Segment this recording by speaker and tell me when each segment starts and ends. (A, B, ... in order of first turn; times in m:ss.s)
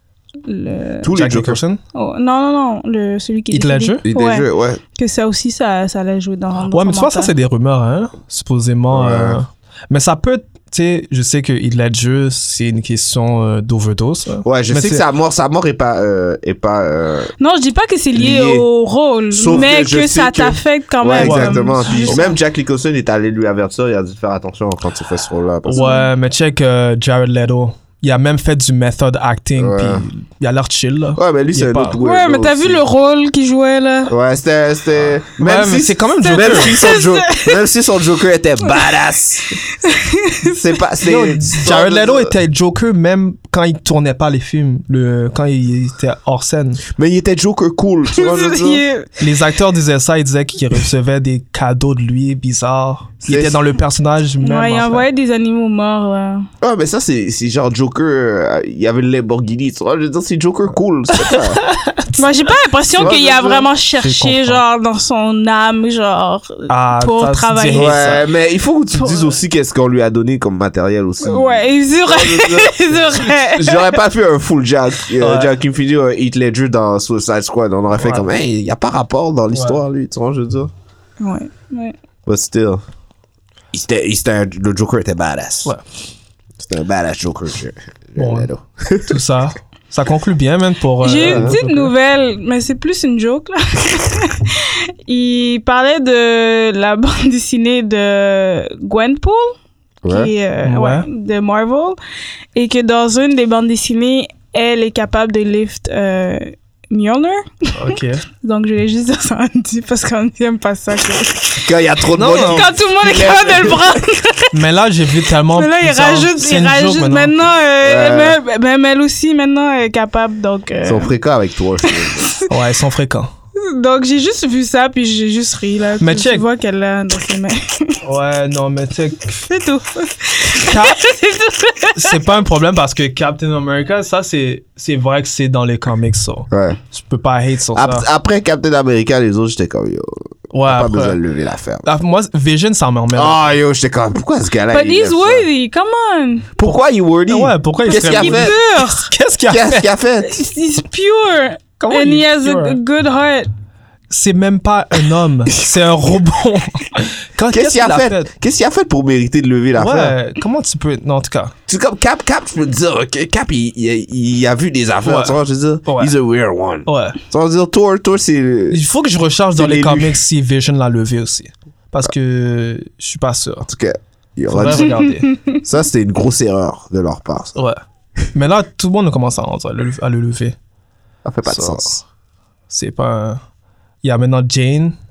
0:00.4-0:01.1 A
0:01.0-0:01.6 B
0:01.1-0:01.8 C
0:01.9-0:07.3 A
0:03.5-0:04.0 C
0:04.0-0:04.8 B
0:06.7-0:15.0 C
0:08.9-0:09.4 B
0:14.4-0:17.3 B
0:17.4-0:22.3 A
0:18.1-0:18.7 B
0:19.3-0:25.9 B
0:21.2-0:22.2 C
0:25.6-0:32.0 C
0:25.7-0:26.1 A
0:29.6-0:30.0 B
0:31.2-0:32.8 B
0:32.0-0:34.1 A
0:34.1-0:39.6 B
0:35.4-0:36.8 C
0:36.2-0:37.6 A
0:39.8-0:40.6 A
0:40.4-0:42.3 B
0:41.0-0:46.8 C
0:46.9-0:48.8 B
0:48.1-0:49.1 A
0:49.2-0:55.0 C
0:53.2-0:53.6 B
0:54.4-0:56.5 A
0:56.6-1:01.6 B
1:01.1-1:02.2 C
1:02.2-1:08.0 A
1:02.9-1:03.7 B
1:04.0-1:04.6 C
1:06.7-1:08.2 C
1:07.7-1:20.7 B
1:08.9-1:09.3 A
1:11.2-1:13.9 A
1:15.2-1:15.5 C
1:17.9-1:18.3 C
1:19.5-1:19.8 C
1:21.2-1:21.9 A
1:22.2-1:22.8 B
1:23.7-1:25.7 B
1:26.6-1:29.2 B
1:28.2-1:28.5 C
1:29.0-1:31.9 C
1:31.0-1:39.6 A
1:31.2-1:31.6 B
1:40.0-1:40.3 B
1:40.1-1:42.0 A
1:40.6-1:41.1 C
1:42.5-1:51.6 A
1:47.8-1:48.2 C
1:51.6-1:54.0 B
1:52.1-1:52.7 C
1:52.3-1:54.5 A
1:54.5-1:57.5 C
1:55.5-2:01.1 A
1:57.8-1:58.4 B
2:00.8-2:02.3 B
2:01.9-2:02.4 A
2:02.5-2:03.3 C
2:03.6-2:08.0 A
2:06.0-2:06.4 C
2:08.0-2:09.4 C
2:09.4-2:12.2 A
2:10.6-2:11.0 C
2:12.0-2:18.1 C
2:16.5-2:16.8 B
2:17.7-2:21.9 B
2:20.5-2:21.2 C
2:21.8-2:23.4 C
2:23.1-2:25.4 B
2:24.7-2:26.5 A
2:26.6-2:28.5 B
2:27.3-2:29.8 C
2:27.8-2:29.1 A
2:29.5-2:30.4 B
2:30.2-2:33.5 A
2:31.8-2:32.8 C
2:34.1-2:38.3 C
2:37.5-2:40.2 B
2:39.8-2:41.5 C
2:41.7-2:48.8 B
2:45.0-2:46.1 C
2:46.8-2:47.2 C
2:48.7-2:53.7 C
2:49.5-2:50.2 B
2:53.6-2:57.6 B
2:54.5-2:55.3 C
2:55.3-2:55.6 A
2:57.6-2:57.8 C
2:58.3-3:00.5 C
3:01.2-3:02.0 B
3:01.4-3:02.0 C
3:02.7-3:03.4 C
3:04.0-3:04.9 C